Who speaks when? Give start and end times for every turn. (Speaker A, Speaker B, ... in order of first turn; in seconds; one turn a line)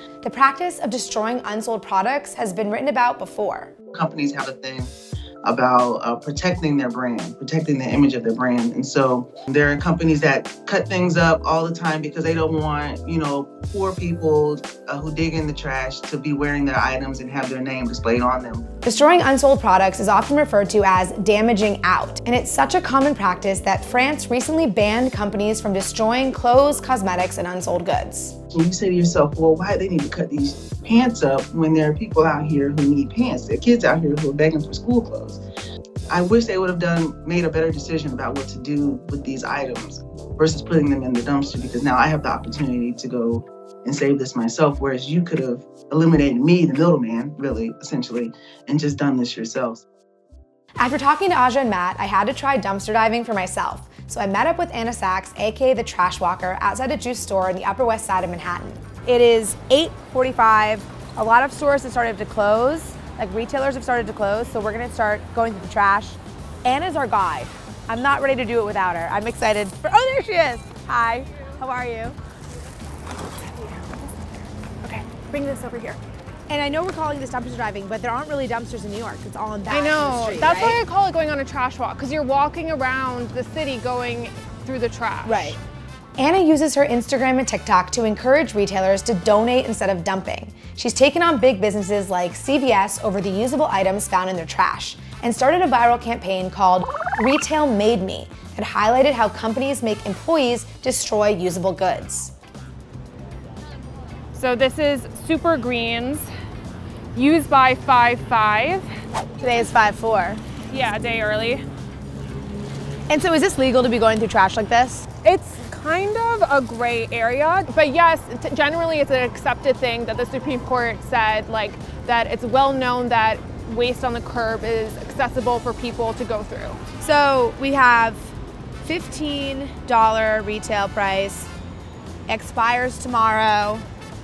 Speaker A: 0.2-3.7
Speaker B: 3.9-18.6
Speaker A: 18.8-28.3
Speaker B: 28.5-35.4
Speaker B: 36.1-49.8
Speaker A: 50.8-72.2
Speaker C: 73.3-74.1
Speaker C: 74.8-76.0
Speaker A: 76.5-80.8
Speaker C: 79.7-85.6
Speaker A: 85.2-85.6
Speaker A: 86.2-102.3
Speaker C: 104.3-106.3
Speaker C: 107.1-108.9
Speaker A: 109.4-110.4
Speaker C: 110.7-111.6
Speaker A: 113.1-115.0
Speaker C: 115.2-126.8
Speaker A: 127.0-131.5
Speaker A: 132.3-133.8